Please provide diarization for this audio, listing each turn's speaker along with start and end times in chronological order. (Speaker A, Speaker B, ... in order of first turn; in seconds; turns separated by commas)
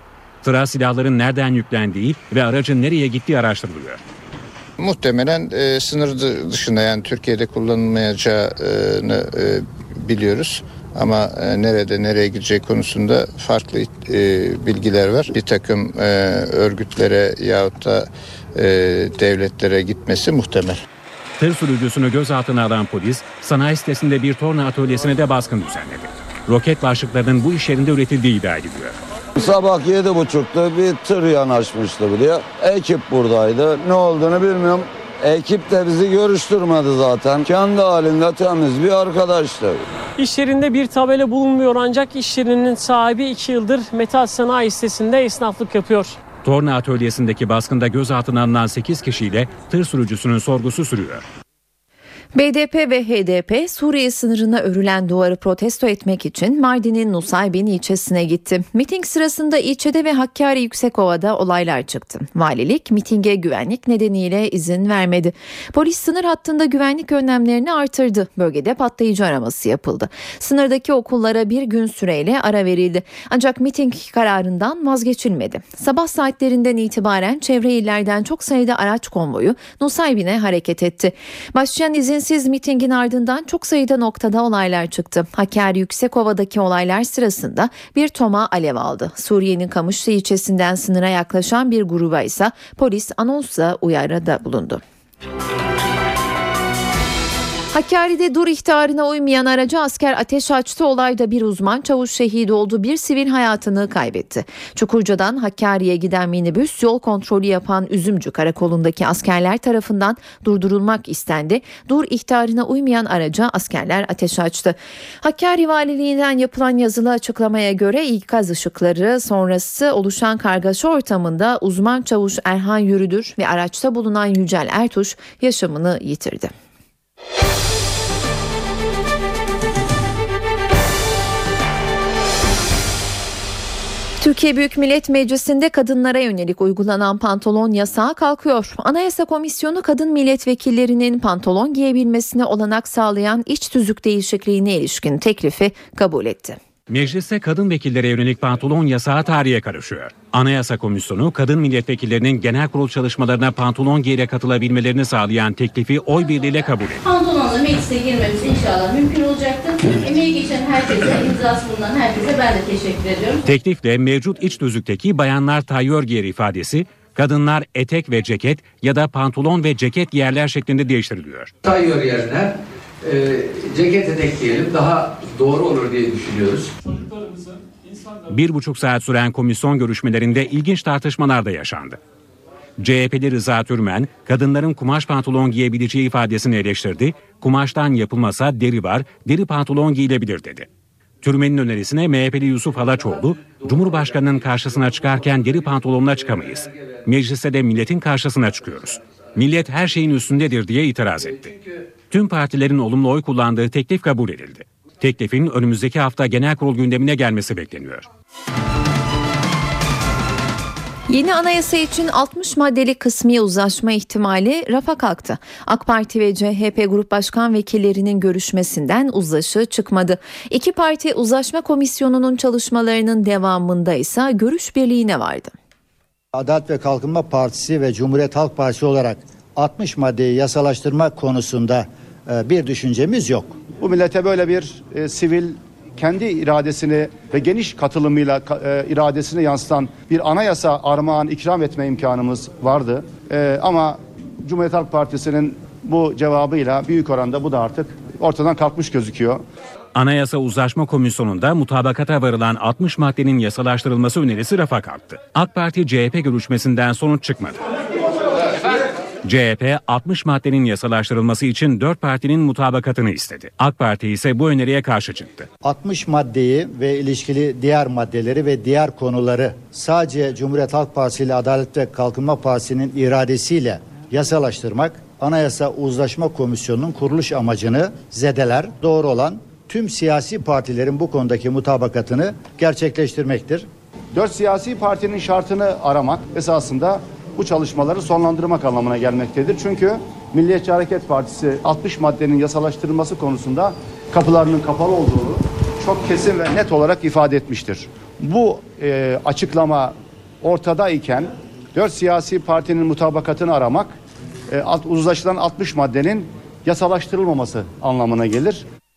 Speaker A: 0.4-4.0, Speaker B: 4.8-20.8, Speaker A: 21.4-29.0, Speaker C: 29.4-39.8, Speaker D: 40.2-46.2, Speaker A: 46.4-51.2, Speaker E: 52.4-94.8, Speaker E: 97.7-126.5, Speaker E: 134.2-146.6, Speaker A: 146.9-157.0, Speaker F: 157.0-163.4, Speaker A: 163.4-171.5, Speaker G: 171.6-176.7, Speaker A: 178.3-182.0, Speaker A: 182.8-190.7, Speaker A: 191.2-201.5, Speaker A: 202.1-208.1, Speaker E: 211.1-225.5, Speaker H: 226.3-233.6, Speaker I: 233.8-249.4, Speaker A: 249.9-257.6, Speaker A: 259.2-265.5, Speaker H: 265.6-283.7, Speaker I: 284.1-303.9, Speaker I: 304.5-308.6